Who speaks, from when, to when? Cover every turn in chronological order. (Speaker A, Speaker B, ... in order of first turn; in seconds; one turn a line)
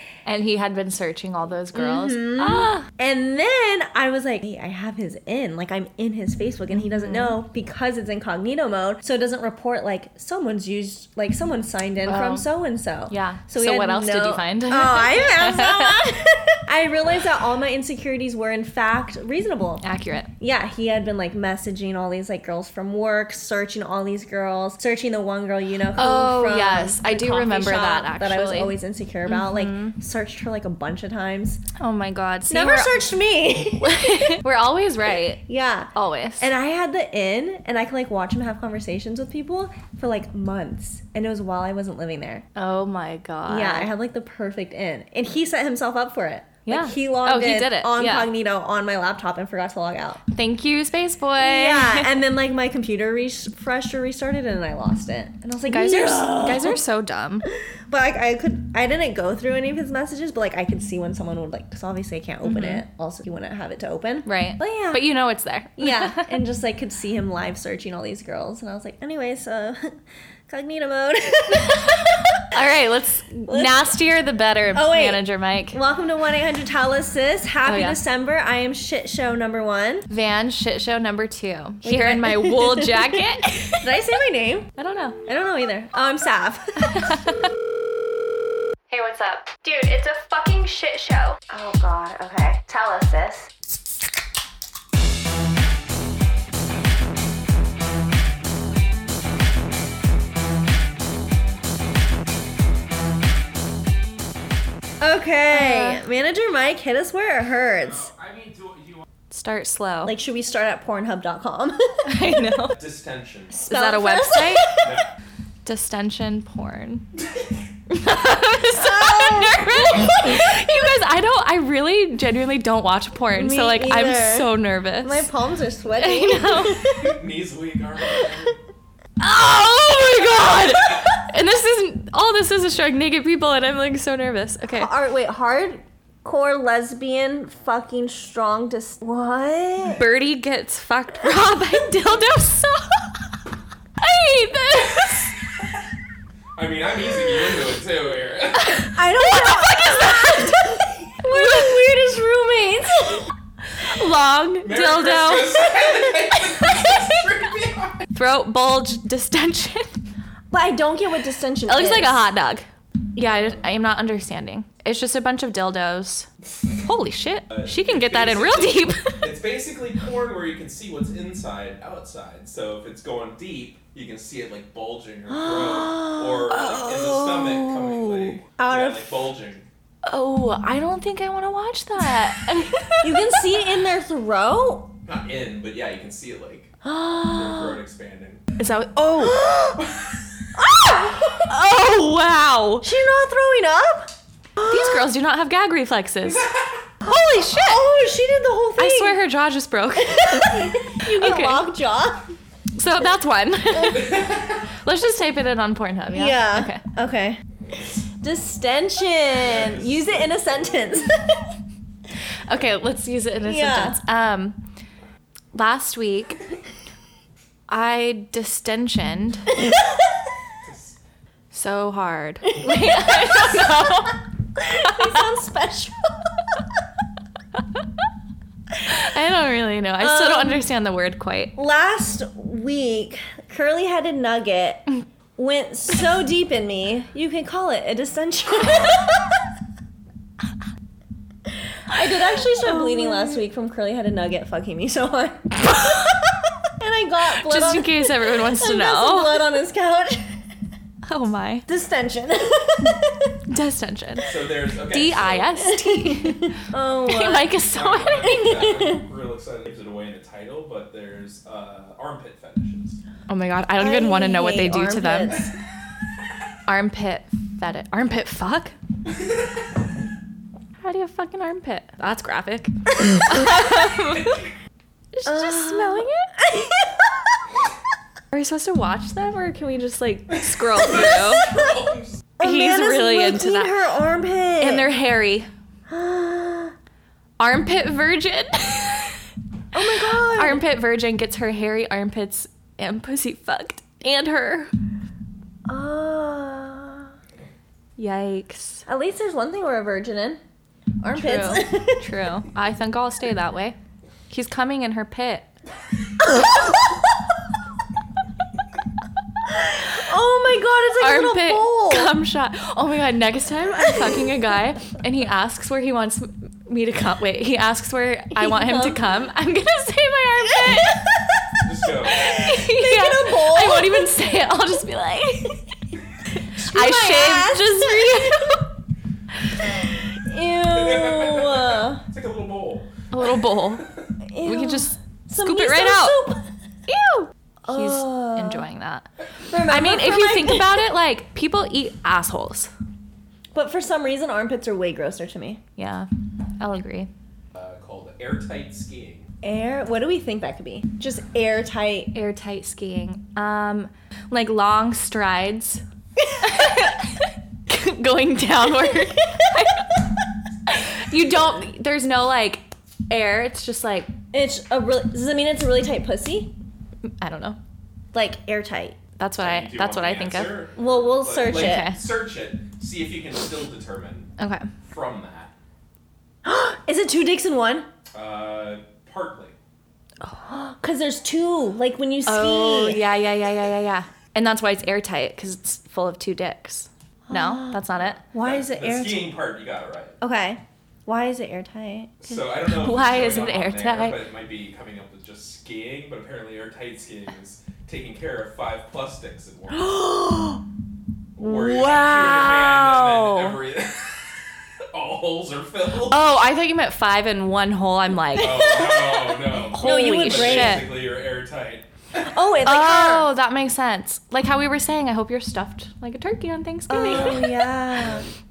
Speaker A: 0.3-2.9
Speaker B: 1.7-19.9
Speaker A: 6.7-7.4
Speaker A: 12.1-12.5
Speaker A: 13.1-16.1
Speaker A: 19.8-20.3
Speaker B: 20.4-31.6
Speaker A: 26.0-30.0
Speaker A: 31.8-32.9
Speaker B: 32.5-34.3
Speaker A: 33.8-35.4
Speaker B: 35.5-42.5
Speaker A: 35.9-36.5
Speaker A: 42.6-43.9
Speaker B: 43.5-50.2
Speaker A: 46.7-48.3
Speaker A: 50.3-52.2
Speaker B: 51.4-56.8
Speaker A: 55.7-57.5
Speaker B: 57.9-65.0
Speaker A: 62.4-62.8
Speaker A: 64.3-66.4
Speaker B: 65.8-72.2
Speaker A: 72.5-75.8
Speaker B: 73.5-73.9
Speaker B: 74.7-80.1
Speaker A: 77.7-78.0
Speaker A: 80.1-83.9
Speaker B: 81.8-83.2
Speaker B: 83.8-84.7
Speaker A: 84.8-85.2
Speaker B: 85.3-87.2
Speaker A: 86.8-87.5
Speaker A: 88.9-91.4
Speaker B: 91.5-93.5
Speaker B: 105.0-108.1
Speaker A: 105.5-106.0
Speaker C: 107.8-109.0
Speaker A: 109.3-110.1
Speaker B: 110.0-112.1
Speaker A: 112.1-112.8
Speaker C: 112.8-113.5
Speaker B: 113.5-114.9
Speaker A: 113.7-114.7
Speaker C: 114.8-115.1
Speaker A: 115.7-117.1
Speaker C: 117.2-117.6
Speaker A: 117.9-125.3
Speaker B: 118.8-120.0
Speaker B: 123.3-124.5
Speaker B: 125.0-127.1
Speaker A: 126.0-127.0
Speaker C: 126.9-128.6
Speaker A: 129.2-134.9
Speaker B: 134.7-140.0
Speaker A: 139.8-143.2
Speaker A: 144.0-145.4
Speaker C: 146.6-148.9
Speaker A: 148.6-151.9
Speaker B: 148.9-153.3
Speaker A: 153.8-155.7
Speaker C: 154.6-158.1
Speaker A: 158.1-160.0
Speaker B: 160.5-162.2
Speaker A: 161.7-169.3
Speaker C: 167.5-179.7
Speaker B: 175.3-176.5
Speaker A: 176.5-178.4
Speaker B: 178.6-179.1
Speaker A: 180.1-183.6
Speaker B: 183.0-184.9
Speaker C: 185.1-186.7
Speaker B: 186.8-187.8
Speaker C: 187.3-188.4
Speaker A: 188.6-189.4
Speaker B: 189.2-189.9
Speaker C: 189.8-190.2
Speaker B: 190.6-191.5
Speaker A: 191.4-192.9
Speaker B: 192.8-195.0
Speaker A: 194.6-196.5
Speaker C: 196.2-196.9
Speaker A: 197.0-197.8
Speaker B: 197.4-199.2
Speaker A: 198.8-201.7
Speaker B: 200.0-202.3
Speaker A: 202.8-206.8
Speaker C: 204.0-204.7
Speaker B: 206.1-207.4
Speaker B: 208.2-211.4
Speaker C: 209.4-211.0
Speaker A: 212.5-214.6
Speaker B: 213.5-214.0
Speaker A: 215.5-216.4
Speaker A: 217.7-219.5
Speaker C: 220.6-221.0
Speaker A: 221.5-224.2
Speaker B: 224.6-226.3
Speaker A: 224.8-225.2
Speaker A: 228.8-231.5
Speaker B: 230.0-230.6
Speaker B: 231.6-239.2
Speaker B: 241.9-250.4
Speaker A: 242.0-243.4
Speaker A: 247.4-249.4
Speaker A: 251.1-251.7
Speaker B: 251.7-253.4
Speaker A: 253.5-258.5
Speaker C: 254.3-255.7
Speaker B: 255.7-257.5
Speaker C: 257.7-263.0
Speaker B: 258.2-259.1
Speaker A: 263.3-265.4
Speaker B: 263.8-265.5
Speaker A: 266.7-268.7
Speaker C: 269.1-269.7
Speaker A: 270.8-274.5
Speaker A: 275.1-276.3
Speaker B: 275.3-277.4
Speaker A: 278.3-281.6
Speaker C: 280.3-282.3
Speaker B: 282.4-284.9
Speaker A: 282.4-283.8
Speaker A: 284.6-285.5
Speaker B: 285.9-286.7
Speaker A: 287.4-289.2
Speaker B: 289.7-290.6
Speaker A: 289.8-294.7
Speaker B: 295.7-297.1
Speaker A: 298.0-298.8
Speaker B: 298.9-300.4
Speaker B: 301.0-302.1
Speaker A: 301.1-303.8
Speaker A: 304.3-305.5
Speaker B: 306.2-306.9
Speaker B: 309.5-312.1
Speaker A: 311.0-321.0
Speaker B: 318.4-319.0
Speaker B: 320.6-324.1
Speaker C: 321.6-322.3
Speaker A: 322.2-325.6
Speaker A: 326.4-328.7
Speaker B: 326.6-328.4
Speaker B: 329.6-332.0
Speaker C: 330.7-334.1
Speaker A: 333.1-333.9
Speaker B: 334.2-336.4
Speaker A: 334.4-336.2
Speaker A: 336.9-339.1
Speaker B: 337.6-338.6
Speaker B: 339.5-340.8
Speaker A: 339.7-342.7
Speaker B: 343.5-345.6
Speaker A: 345.8-346.1
Speaker A: 346.6-347.1
Speaker C: 347.5-349.3
Speaker B: 349.4-352.1
Speaker A: 352.1-355.8
Speaker A: 356.4-359.9
Speaker A: 360.7-364.1
Speaker B: 364.3-366.5
Speaker A: 367.2-367.6
Speaker B: 368.1-369.0
Speaker A: 369.2-370.6
Speaker C: 369.4-374.3
Speaker B: 370.8-371.9
Speaker A: 371.5-372.0
Speaker A: 374.4-374.7
Speaker C: 374.8-375.5
Speaker B: 376.4-377.9
Speaker C: 378.1-379.6
Speaker B: 380.5-383.1
Speaker A: 382.3-388.2
Speaker B: 387.3-387.8
Speaker C: 388.0-390.2
Speaker B: 388.3-389.4
Speaker B: 390.2-392.2
Speaker C: 392.2-400.0
Speaker A: 392.6-394.2
Speaker B: 399.7-400.6
Speaker C: 401.4-406.2
Speaker A: 401.4-403.6
Speaker A: 406.0-408.7
Speaker B: 408.4-410.9
Speaker C: 408.4-411.9
Speaker A: 409.7-410.9
Speaker B: 412.2-413.3
Speaker A: 412.6-417.6
Speaker B: 416.9-418.2
Speaker C: 417.1-417.5